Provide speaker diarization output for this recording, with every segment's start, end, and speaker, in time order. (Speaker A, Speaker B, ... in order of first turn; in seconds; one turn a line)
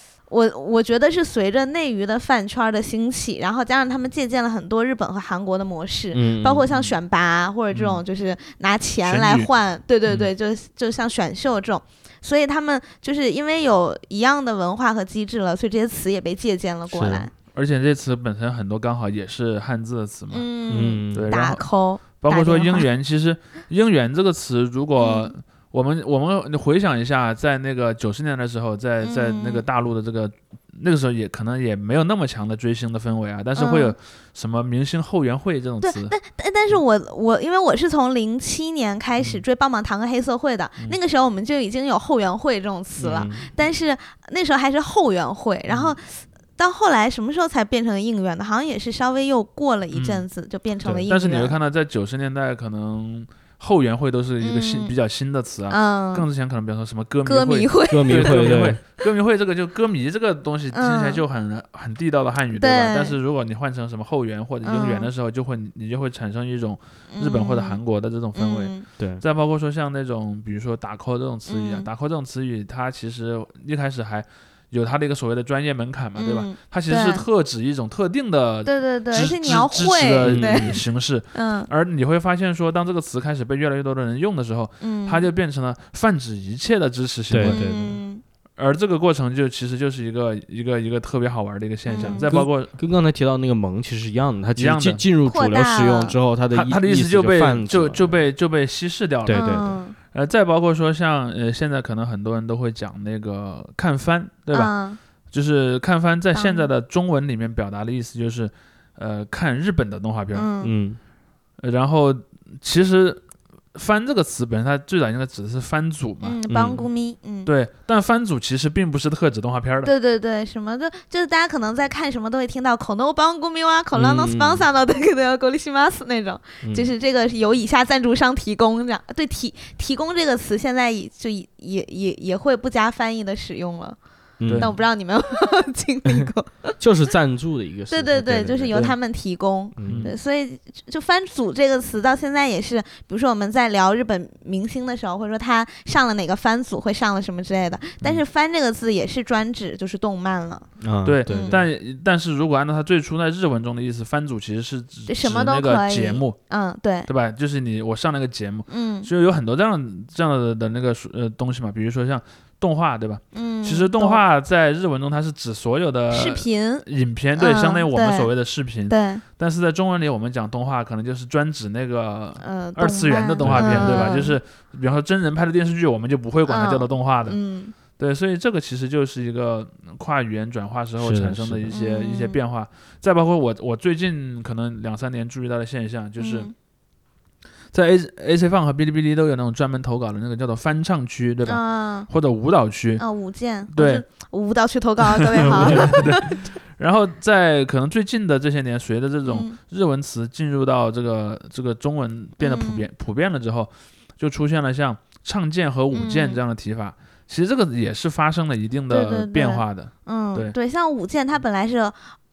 Speaker A: 0.3-17.3
Speaker B: 6.1-6.7
Speaker C: 7.7-8.0
Speaker C: 9.0-9.5
Speaker B: 16.9-17.3
Speaker C: 17.5-36.1
Speaker A: 20.3-22.9
Speaker B: 20.7-21.3
Speaker A: 25.0-25.3
Speaker A: 29.0-29.6
Speaker A: 33.6-33.9
Speaker A: 35.8-51.5
Speaker B: 43.0-43.5
Speaker C: 49.9-50.2
Speaker C: 51.1-87.6
Speaker A: 54.4-54.9
Speaker A: 55.7-56.3
Speaker A: 57.2-58.8
Speaker B: 57.9-58.8
Speaker A: 60.7-61.2
Speaker A: 62.6-63.2
Speaker A: 64.6-65.1
Speaker A: 67.1-67.8
Speaker A: 68.3-68.8
Speaker A: 71.5-71.9
Speaker A: 76.2-77.2
Speaker A: 78.7-80.8
Speaker B: 80.2-80.8
Speaker A: 81.3-81.7
Speaker A: 84.8-85.3
Speaker B: 87.3-88.0
Speaker A: 87.4-88.2
Speaker C: 88.6-92.7
Speaker A: 91.9-92.3
Speaker B: 92.0-98.2
Speaker C: 94.6-95.0
Speaker A: 95.2-96.2
Speaker C: 96.5-104.7
Speaker B: 99.3-99.7
Speaker A: 99.3-100.0
Speaker A: 104.5-105.0
Speaker C: 105.3-110.5
Speaker A: 106.3-106.7
Speaker A: 110.3-110.7
Speaker B: 110.6-111.0
Speaker C: 111.6-113.2
Speaker C: 113.8-116.4
Speaker A: 116.2-117.5
Speaker B: 116.5-116.9
Speaker C: 117.5-119.9
Speaker A: 119.8-136.8
Speaker B: 123.9-124.7
Speaker B: 126.6-126.9
Speaker B: 134.4-134.7
Speaker C: 134.5-134.7
Speaker B: 136.8-139.0
Speaker A: 137.9-150.7
Speaker B: 139.8-140.1
Speaker C: 139.8-140.1
Speaker B: 150.8-151.7
Speaker C: 151.1-156.4
Speaker A: 151.2-151.6
Speaker A: 155.1-157.1
Speaker C: 157.1-177.4
Speaker A: 158.7-159.1
Speaker A: 163.3-164.2
Speaker A: 166.1-166.8
Speaker A: 167.4-168.3
Speaker A: 168.9-169.2
Speaker A: 172.4-174.4
Speaker B: 173.4-174.2
Speaker A: 176.5-177.8
Speaker C: 178.0-186.5
Speaker B: 181.0-181.7
Speaker A: 181.7-182.4
Speaker A: 186.2-186.5
Speaker C: 187.7-193.1
Speaker A: 191.5-192.1
Speaker A: 193.0-196.3
Speaker C: 193.7-194.1
Speaker C: 195.3-210.6
Speaker B: 195.5-196.0
Speaker A: 199.3-199.6
Speaker A: 202.4-202.8
Speaker A: 205.9-206.4
Speaker A: 208.9-212.0